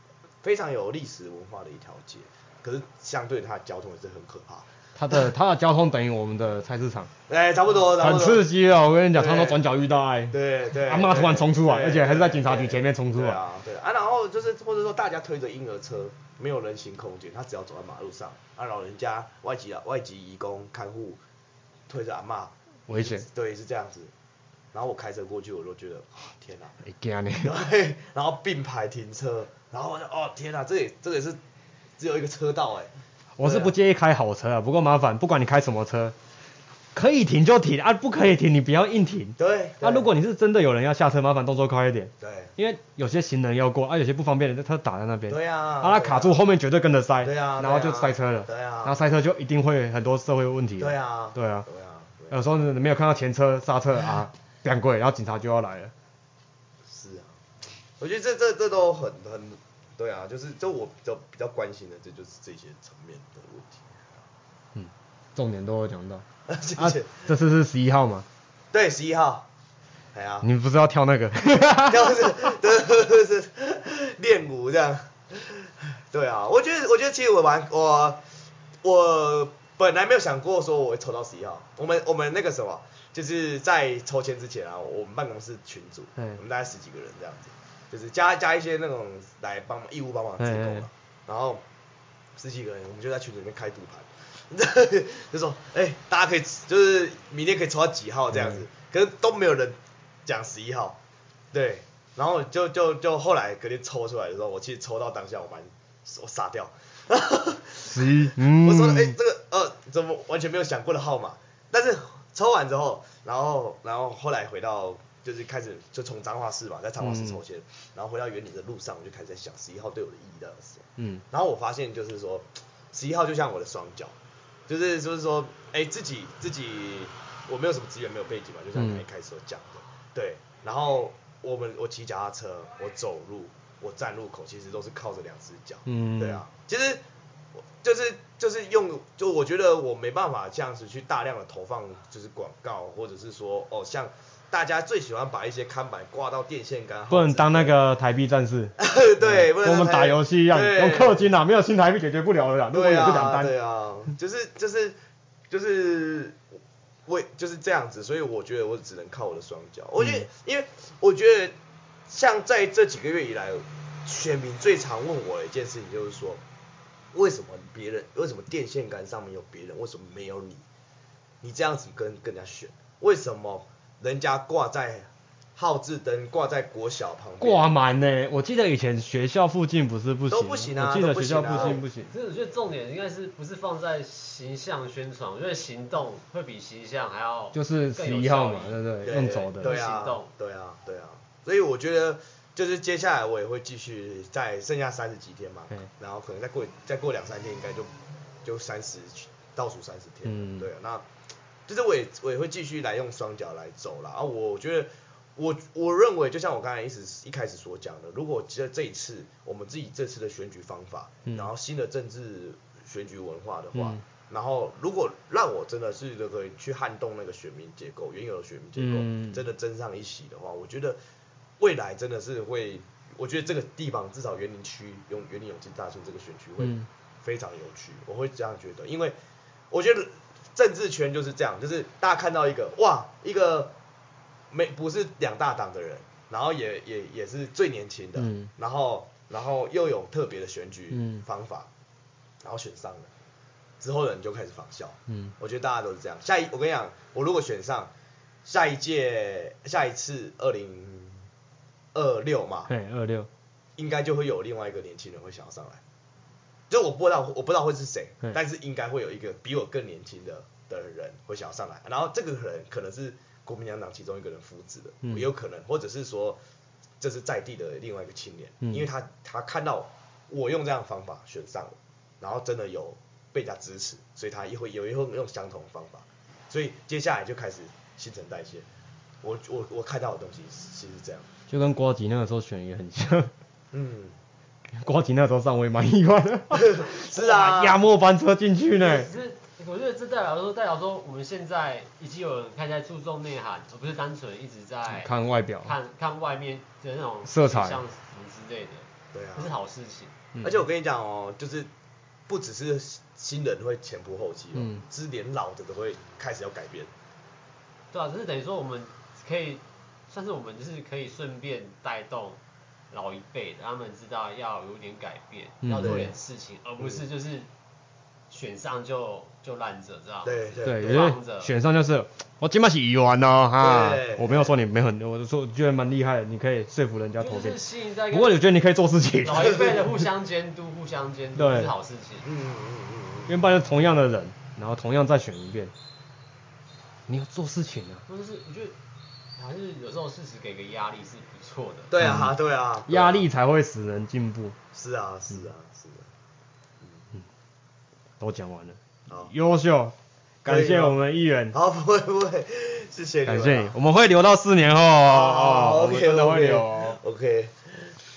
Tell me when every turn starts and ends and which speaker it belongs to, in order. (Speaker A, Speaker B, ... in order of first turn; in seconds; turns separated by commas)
Speaker A: 0.4-4.7, Speaker B: 5.0-7.1, Speaker A: 7.3-8.5, Speaker B: 7.8-13.4, Speaker A: 9.1-9.6, Speaker A: 10.3-21.2, Speaker A: 21.9-24.1, Speaker B: 22.9-23.2, Speaker A: 24.7-26.8, Speaker B: 26.8-27.5, Speaker A: 27.4-31.4, Speaker A: 32.0-33.7, Speaker B: 33.4-36.1, Speaker B: 36.9-51.7, Speaker A: 39.4-40.1, Speaker A: 42.2-42.5, Speaker A: 45.3-46.4, Speaker A: 47.2-49.1, Speaker A: 50.8-52.4, Speaker B: 52.3-55.9, Speaker A: 56.9-57.4, Speaker A: 58.0-64.3, Speaker B: 64.8-66.2, Speaker A: 66.5-67.1, Speaker B: 66.8-68.3, Speaker A: 68.7-69.5, Speaker A: 70.1-70.5, Speaker B: 70.4-72.3, Speaker A: 71.7-78.2, Speaker A: 78.8-91.6, Speaker B: 90.4-90.9, Speaker A: 92.4-101.0, Speaker B: 98.3-98.6, Speaker A: 101.5-124.2, Speaker B: 107.9-109.1, Speaker B: 117.0-117.4, Speaker B: 121.0-121.2, Speaker A: 124.7-137.0, Speaker B: 128.8-129.0, Speaker B: 135.9-136.4, Speaker A: 137.6-147.8, Speaker B: 147.1-153.5, Speaker A: 148.8-151.3, Speaker A: 152.7-155.0, Speaker A: 155.5-156.4, Speaker A: 157.1-161.6, Speaker B: 160.0-160.3, Speaker A: 162.1-166.4, Speaker A: 167.1-170.7, Speaker A: 171.4-177.7, Speaker B: 177.4-182.1, Speaker A: 180.3-181.8, Speaker C: 181.5-188.8, Speaker B: 187.5-189.7, Speaker A: 189.0-197.9, Speaker C: 189.6-190.3, Speaker A: 198.4-201.1, Speaker B: 200.3-200.7, Speaker A: 201.7-221.0, Speaker B: 213.8-214.0, Speaker B: 218.8-219.4, Speaker A: 221.6-229.2, Speaker B: 226.6-226.9, Speaker A: 229.7-233.7, Speaker A: 234.5-241.7, Speaker B: 238.2-238.5, Speaker B: 240.9-241.2, Speaker A: 242.4-243.1, Speaker A: 243.8-247.9, Speaker A: 248.4-251.3, Speaker A: 251.9-252.7, Speaker B: 252.7-253.3, Speaker A: 253.8-255.8, Speaker A: 256.7-266.4, Speaker A: 267.0-278.7, Speaker A: 279.2-281.3, Speaker B: 281.5-283.3, Speaker A: 283.7-284.2, Speaker B: 284.7-289.1, Speaker A: 286.8-287.8, Speaker C: 288.8-300.2, Speaker B: 294.9-295.7, Speaker B: 297.3-297.8, Speaker A: 299.1-299.6, Speaker A: 300.4-301.7, Speaker A: 302.3-306.9, Speaker B: 304.6-304.8, Speaker C: 307.9-312.4, Speaker C: 312.9-317.5, Speaker B: 315.6-316.1, Speaker C: 318.3-321.5, Speaker A: 320.2-321.1, Speaker B: 320.6-327.6, Speaker A: 323.6-324.5, Speaker C: 327.2-328.4, Speaker B: 328.1-330.0, Speaker C: 329.2-332.3, Speaker A: 329.4-329.7, Speaker B: 331.4-331.7, Speaker A: 332.2-333.3, Speaker B: 333.3-335.7, Speaker B: 337.1-338.0, Speaker C: 338.1-338.8, Speaker C: 339.4-341.9, Speaker A: 341.9-343.2, Speaker B: 342.0-342.3, Speaker B: 342.9-344.6, Speaker A: 344.7-346.1, Speaker B: 348.2-351.6, Speaker A: 350.5-351.0, Speaker A: 351.5-353.8, Speaker B: 353.3-357.0, Speaker A: 355.1-357.9